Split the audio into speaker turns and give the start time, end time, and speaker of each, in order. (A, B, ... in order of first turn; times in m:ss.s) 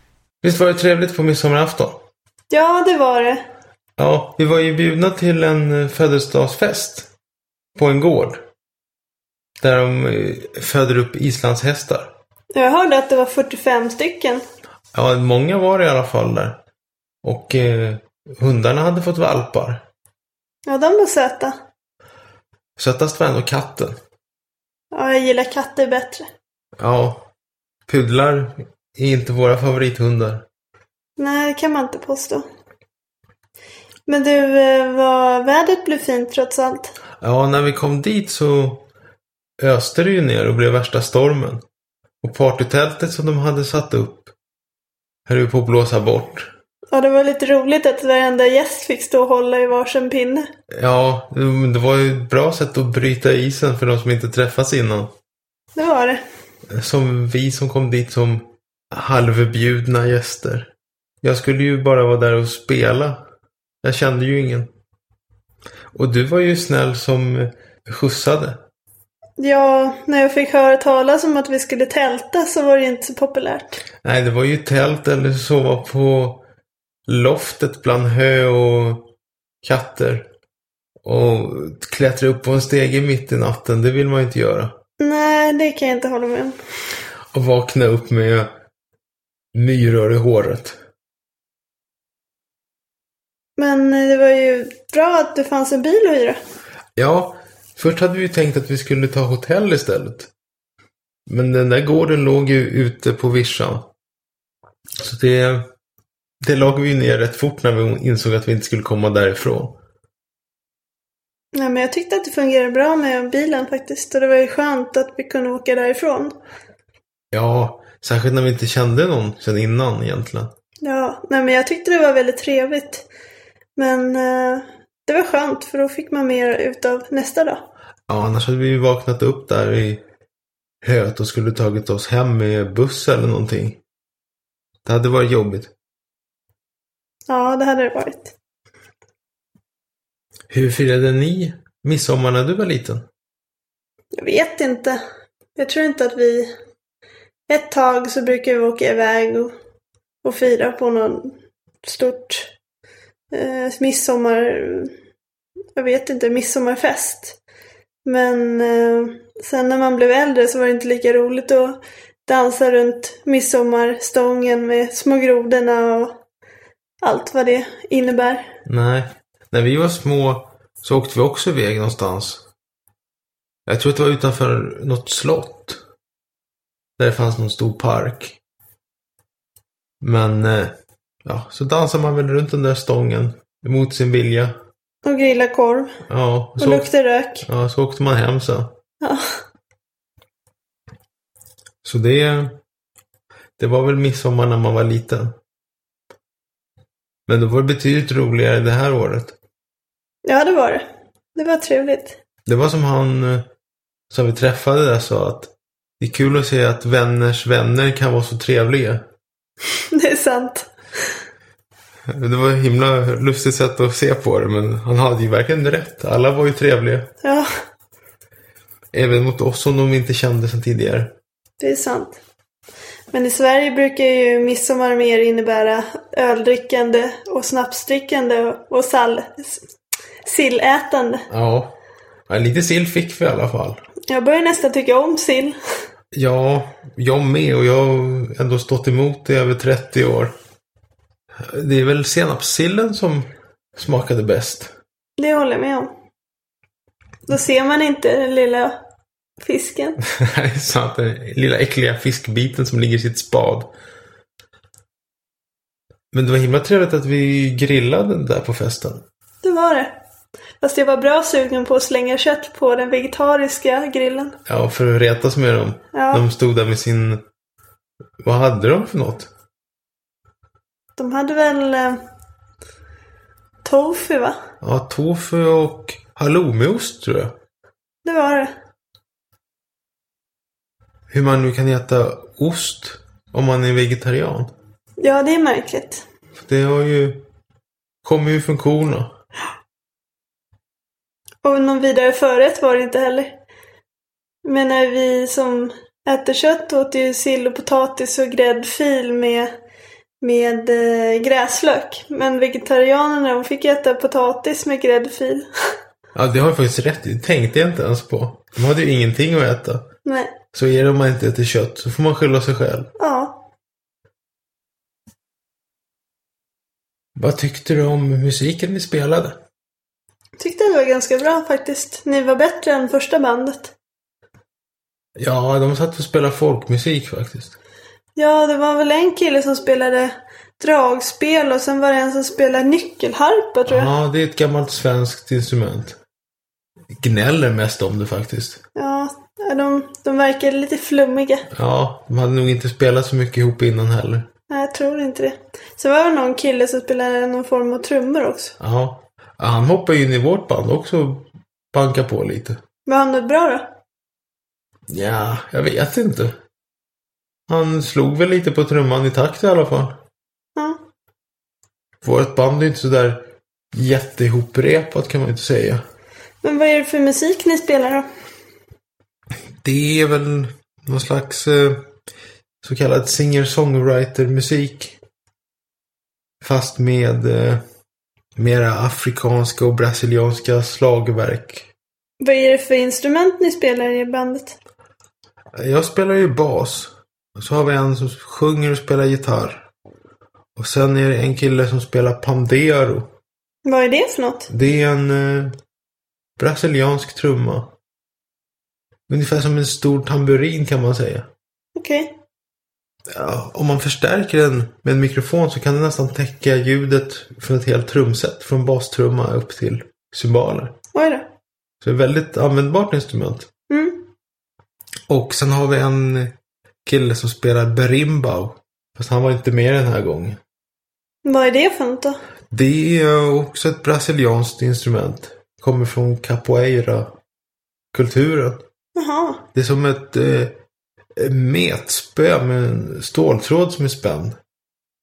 0:00.4-0:02.0 A
0:02.5-0:03.4 B
0:04.0-0:07.1 A
0:07.8-0:08.4 A
0:09.6-0:12.1 A
0:12.6-0:14.4 B
0:14.9-0:16.6 A
0:17.2-0:19.8 A
0:20.7-0:21.6 B
0:22.8-0:24.0 A
0:24.9-0:26.3 B
0:26.8-0:27.3 A
0:27.9-0:30.4 A
0:31.2-0:32.4 B
0:34.1-0:36.9 B
0:37.2-0:38.8 A
0:39.6-0:41.6 A
0:42.2-0:44.3 A
0:45.3-0:46.5 A
0:46.9-0:50.5 B
0:50.7-0:55.1 A
0:55.8-0:56.2 B
0:56.7-1:03.2 A
1:03.8-1:04.7 A
1:05.9-1:08.6 A
1:09.4-1:13.8 B
1:14.0-1:16.4 A
1:17.1-1:19.1 A
1:19.6-1:20.3 A
1:21.0-1:24.8 A
1:25.0-1:26.6 B
1:27.3-1:28.5 A
1:29.5-1:30.8 A
1:33.6-1:36.4 B
1:37.0-1:40.3 A
1:41.3-1:43.9 A
1:45.0-1:45.7 A
1:46.4-1:49.8 A
1:51.5-1:56.4 B
1:57.3-2:00.5 A
2:00.8-2:03.1 B
2:03.8-2:07.6 B
2:08.1-2:10.0 A
2:10.8-2:13.8 A
2:14.8-2:15.7 A
2:17.3-2:18.4 B
2:20.5-2:23.0 A
2:24.2-2:25.0 B
2:25.6-2:26.5 B
2:27.5-2:29.5 B
2:30.2-2:32.5 B
2:33.3-2:34.9 B
2:35.8-2:37.4 B
2:38.0-2:46.2 B
2:47.0-2:48.5 B
2:48.7-2:52.5 A
2:53.7-2:55.8 A
2:57.0-2:58.4 A
3:00.0-3:04.6 A
3:05.0-3:06.0 B
3:06.1-3:06.9 A
3:06.6-3:07.5 B
3:07.4-3:08.7 A
3:09.0-3:09.4 B
3:11.8-3:12.6 A
3:13.6-3:15.4 A
3:17.3-3:19.4 A
3:20.2-3:22.2 B
3:22.5-3:23.5 A
3:24.1-3:29.0 A
3:29.9-3:30.7 B
3:32.1-3:37.1 A
3:37.2-3:37.5 B
3:38.9-3:41.1 A
3:41.6-3:42.2 B
3:43.1-3:49.7 B
3:50.2-3:51.2 B
3:51.3-3:51.8 A
3:52.3-3:53.8 A
3:54.1-3:55.6 B
3:56.1-4:00.3 A
4:01.4-4:04.7 A
4:05.2-4:05.9 B
4:07.3-4:08.8 B
4:09.4-4:10.0 B
4:10.0-4:13.7 A
4:16.1-4:19.0 A
4:19.4-4:20.0 B
4:20.6-4:24.4 B
4:24.5-4:27.2 A
4:25.9-4:26.2 B
4:28.2-4:29.3 A
4:31.0-4:32.0 B
4:33.6-4:34.4 B
4:34.6-4:37.3 A
4:38.0-4:38.5 B
4:41.1-4:44.5 A
4:45.0-4:46.0 B
4:46.4-4:47.2 A
4:48.0-4:49.1 A
4:51.4-4:53.4 B
4:54.4-4:59.5 B
5:00.2-5:05.5 B
5:06.2-5:09.8 A
5:10.0-5:10.4 B
5:10.5-5:12.9 A
5:13.0-5:13.5 B
5:17.2-5:19.4 A
5:20.4-5:23.7 B
5:25.2-5:27.6 A
5:28.2-5:33.9 B
5:33.7-5:36.0 A
5:36.9-5:38.6 A
5:38.8-5:41.5 B
5:41.5-5:44.3 A
5:44.5-5:48.6 B
5:48.6-5:52.6 A
5:52.9-5:53.8 B
5:54.9-5:56.4 A
5:57.5-6:00.0 A
6:02.0-6:05.8 A
6:06.4-6:08.1 B
6:09.6-6:11.8 A
6:12.6-6:15.0 A
6:16.4-6:17.6 A
6:18.4-6:21.7 A
6:22.2-6:24.6 B
6:25.6-6:29.7 A
6:30.6-6:33.1 A
6:33.6-6:34.5 B
6:34.5-6:35.5 A
6:36.4-6:37.7 A
6:39.1-6:41.3 A
6:41.8-6:42.2 B
6:43.1-6:50.8 A
6:50.9-6:51.3 B
6:51.8-6:53.5 A
6:53.7-6:54.1 B
6:55.1-6:56.3 A
6:56.8-7:00.4 A
7:01.2-7:02.2 B
7:02.5-7:07.2 A
7:07.9-7:08.6 A
7:09.0-7:09.4 B
7:09.6-7:10.6 A
7:11.2-7:14.4 A